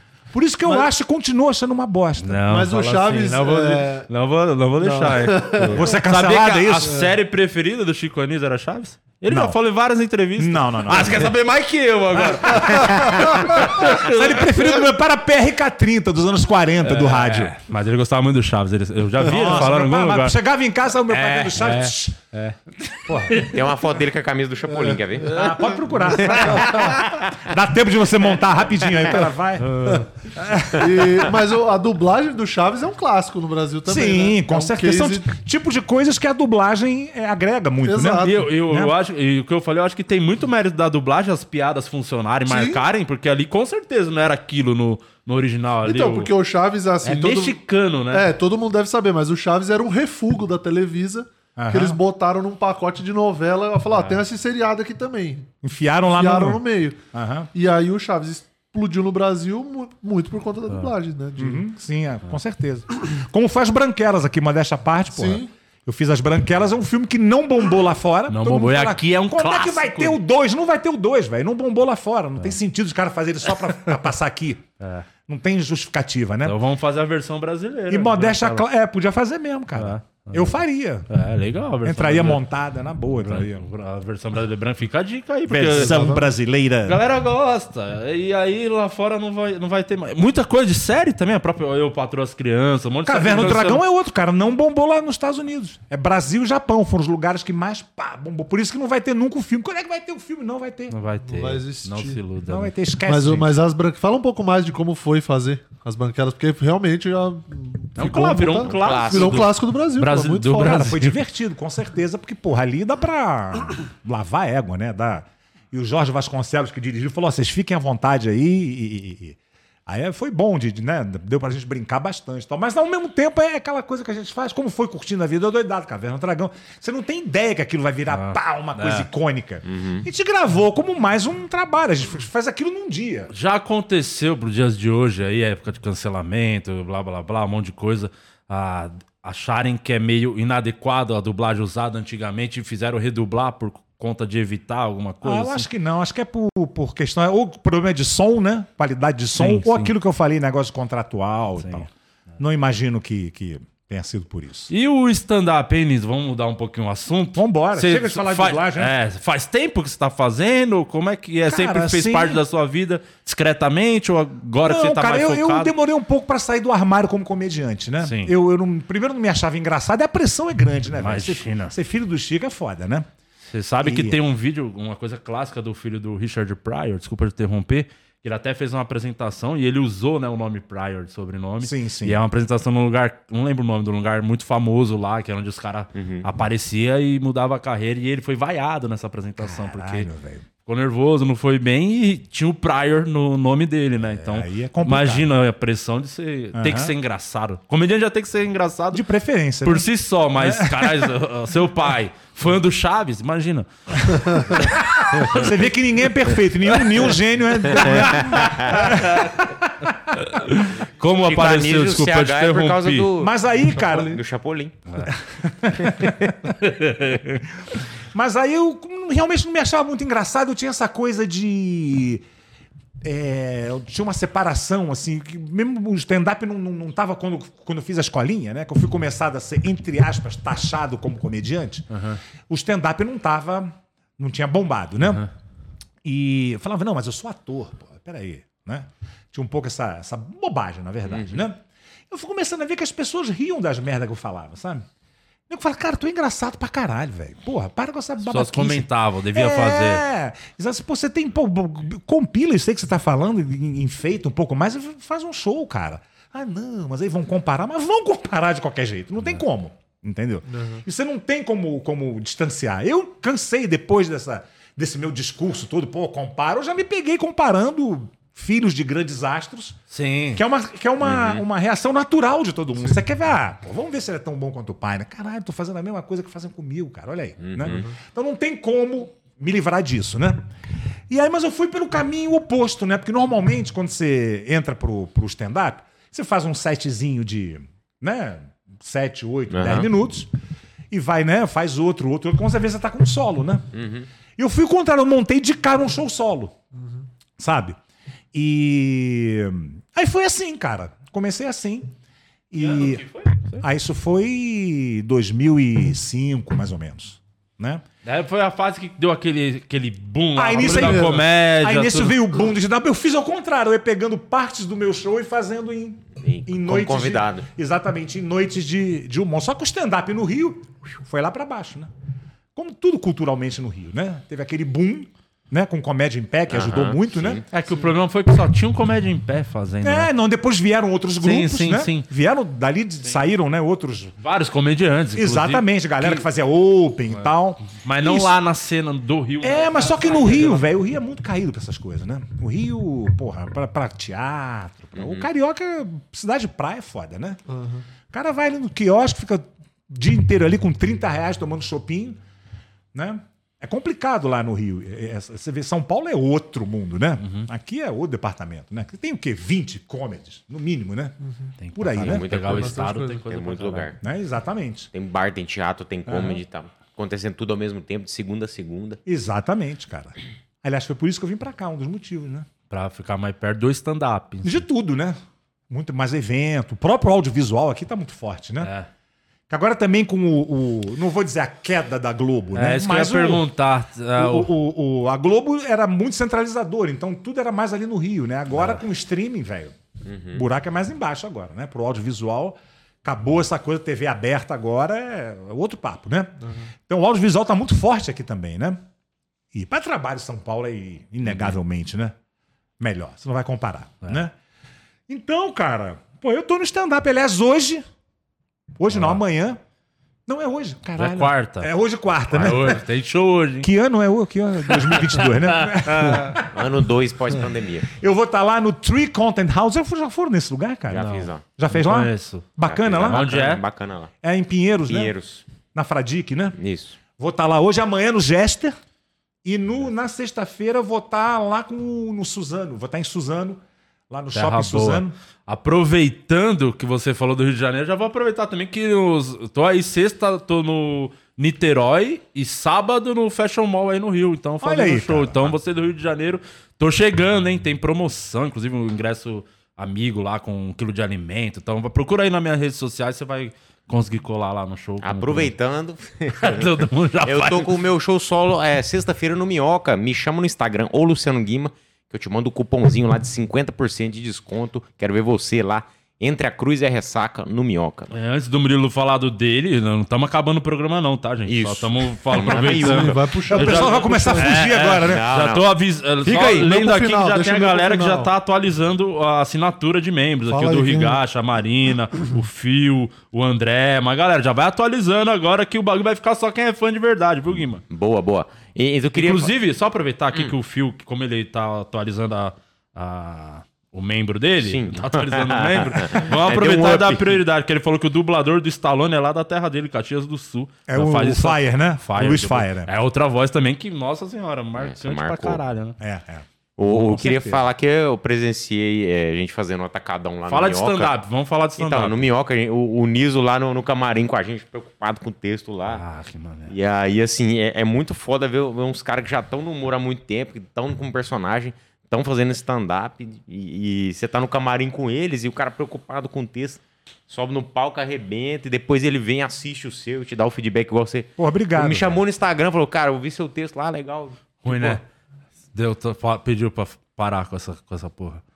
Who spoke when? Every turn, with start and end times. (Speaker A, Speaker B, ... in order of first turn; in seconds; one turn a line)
Speaker A: 0.3-2.4
Speaker B: 2.2-14.8
Speaker C: 2.5-4.1
Speaker C: 4.8-6.0
Speaker A: 5.7-7.0
Speaker C: 6.8-7.1
Speaker A: 9.3-9.6
Speaker A: 10.4-11.3
Speaker A: 12.2-17.5
Speaker B: 16.8-20.4
Speaker A: 19.2-22.2
Speaker B: 21.1-23.6
Speaker A: 23.1-23.5
Speaker D: 23.3-27.4
Speaker A: 25.2-31.2
Speaker C: 26.1-27.0
Speaker B: 29.6-30.1
Speaker C: 30.7-35.3
Speaker A: 33.9-38.9
Speaker C: 37.8-38.5
Speaker B: 38.2-46.3
Speaker C: 42.5-42.8
Speaker C: 45.8-55.5
Speaker B: 47.0-48.3
Speaker A: 51.6-52.0
Speaker B: 53.9-54.2
Speaker A: 55.6-56.6
Speaker C: 56.1-57.0
Speaker A: 57.1-57.5
Speaker C: 57.5-61.6
Speaker A: 61.4-74.7
Speaker C: 65.1-65.5
Speaker B: 68.3-70.2
Speaker B: 74.8-75.1
Speaker A: 75.2-76.6
Speaker B: 76.4-78.6
Speaker A: 77.9-81.1
Speaker B: 79.8-82.4
Speaker A: 81.8-83.6
Speaker B: 83.2-86.2
Speaker A: 85.5-87.0
Speaker C: 85.7-86.3
Speaker B: 86.8-93.8
Speaker A: 93.1-101.0
Speaker B: 100.9-102.7
Speaker C: 101.2-102.2
Speaker A: 102.5-103.5
Speaker C: 103.1-110.9
Speaker B: 108.0-111.2
Speaker D: 108.6-109.6
Speaker A: 110.6-133.3
Speaker B: 128.1-129.1
Speaker D: 129.6-130.1
Speaker B: 133.3-145.7
Speaker A: 145.2-154.7
Speaker B: 149.3-149.9
Speaker B: 151.6-151.9
Speaker B: 154.7-165.7
Speaker A: 157.3-158.9
Speaker A: 161.5-162.4
Speaker A: 164.6-173.1
Speaker B: 168.0-168.3
Speaker B: 171.0-171.8
Speaker B: 173.5-190.1
Speaker A: 173.8-174.2
Speaker A: 181.6-182.2
Speaker D: 185.9-186.2
Speaker A: 189.4-190.4
Speaker B: 190.6-199.0
Speaker A: 194.0-195.3
Speaker A: 196.5-196.9
Speaker A: 198.9-199.9
Speaker B: 199.6-205.6
Speaker A: 200.4-201.1
Speaker A: 204.5-210.2
Speaker D: 207.7-208.8
Speaker B: 207.8-209.4
Speaker B: 210.1-213.1
Speaker D: 211.2-213.3
Speaker A: 213.2-214.2
Speaker C: 213.7-214.2
Speaker D: 213.9-214.8
Speaker A: 215.1-216.3
Speaker D: 216.0-216.3
Speaker B: 216.5-217.4
Speaker A: 218.1-222.2
Speaker A: 223.0-231.9
Speaker B: 231.9-232.2
Speaker A: 232.5-235.2
Speaker A: 236.0-244.8
Speaker D: 241.1-241.4
Speaker A: 245.5-269.8
Speaker B: 248.2-250.0
Speaker C: 260.5-260.8
Speaker B: 269.9-270.4
Speaker A: 270.3-280.4
Speaker D: 271.0-271.4
Speaker D: 277.4-277.9
Speaker A: 281.1-290.3
Speaker D: 289.5-289.9
Speaker A: 290.9-293.7
Speaker D: 293.7-294.1
Speaker A: 294.4-296.5
Speaker A: 297.4-297.8
Speaker A: 298.3-301.9
Speaker A: 302.5-303.0
Speaker B: 302.6-303.6
Speaker A: 303.6-307.8
Speaker B: 308.0-312.2
Speaker A: 310.4-321.9
Speaker C: 310.6-311.2
Speaker D: 316.2-317.5
Speaker A: 322.5-327.4
Speaker D: 326.5-327.4
Speaker B: 327.5-330.1
Speaker A: 329.8-334.1
Speaker B: 331.2-332.1
Speaker B: 334.2-336.2
Speaker A: 335.1-338.3
Speaker B: 337.7-340.6
Speaker A: 339.4-347.4
Speaker D: 344.9-345.3
Speaker C: 347.5-347.8
Speaker A: 348.1-352.2
Speaker A: 352.9-361.2
Speaker B: 357.2-357.5
Speaker B: 361.6-363.9
Speaker A: 361.8-362.2
Speaker D: 362.0-364.0
Speaker C: 362.4-363.2
Speaker A: 364.0-364.9
Speaker D: 364.9-369.0
Speaker A: 366.1-366.4
Speaker A: 369.1-372.5
Speaker B: 372.7-374.6
Speaker A: 374.4-375.2
Speaker A: 375.7-378.7
Speaker B: 378.6-378.9
Speaker A: 379.5-383.4
Speaker B: 382.5-384.5
Speaker A: 384.2-389.8
Speaker B: 388.5-388.8
Speaker D: 390.1-390.4
Speaker A: 390.3-398.8
Speaker A: 399.5-402.1
Speaker B: 401.2-401.6
Speaker A: 402.8-404.3
Speaker A: 405.1-407.8
Speaker A: 408.8-409.6
Speaker B: 408.9-409.2
Speaker A: 410.3-412.8
Speaker B: 411.0-411.7
Speaker B: 412.3-413.7
Speaker A: 413.6-416.6
Speaker B: 414.9-416.4
Speaker D: 416.4-417.9
Speaker A: 417.9-423.3
Speaker D: 420.9-421.4
Speaker B: 420.9-422.5
Speaker D: 422.6-424.1
Speaker B: 423.0-423.6
Speaker A: 424.2-426.6
Speaker D: 424.9-425.4
Speaker D: 426.6-427.0
Speaker A: 427.2-428.8
Speaker A: 429.4-435.1
Speaker B: 434.3-455.5
Speaker A: 444.6-445.5
Speaker D: 455.0-456.7
Speaker B: 456.4-457.7
Speaker D: 457.2-468.1
Speaker B: 468.1-487.8
Speaker D: 471.5-473.3
Speaker C: 472.5-474.6
Speaker A: 473.5-475.2
Speaker D: 474.9-475.7
Speaker D: 476.3-476.6
Speaker C: 476.3-478.3
Speaker C: 480.5-481.2
Speaker D: 487.9-489.5
Speaker B: 489.1-506.0
Speaker D: 494.6-497.4
Speaker A: 500.9-502.9
Speaker D: 504.8-505.6
Speaker A: 506.0-507.6
Speaker D: 506.8-511.1
Speaker B: 510.5-512.3
Speaker D: 511.8-516.0
Speaker B: 515.9-516.7
Speaker D: 516.7-535.0
Speaker A: 531.4-532.2
Speaker B: 534.6-535.0
Speaker B: 535.7-538.4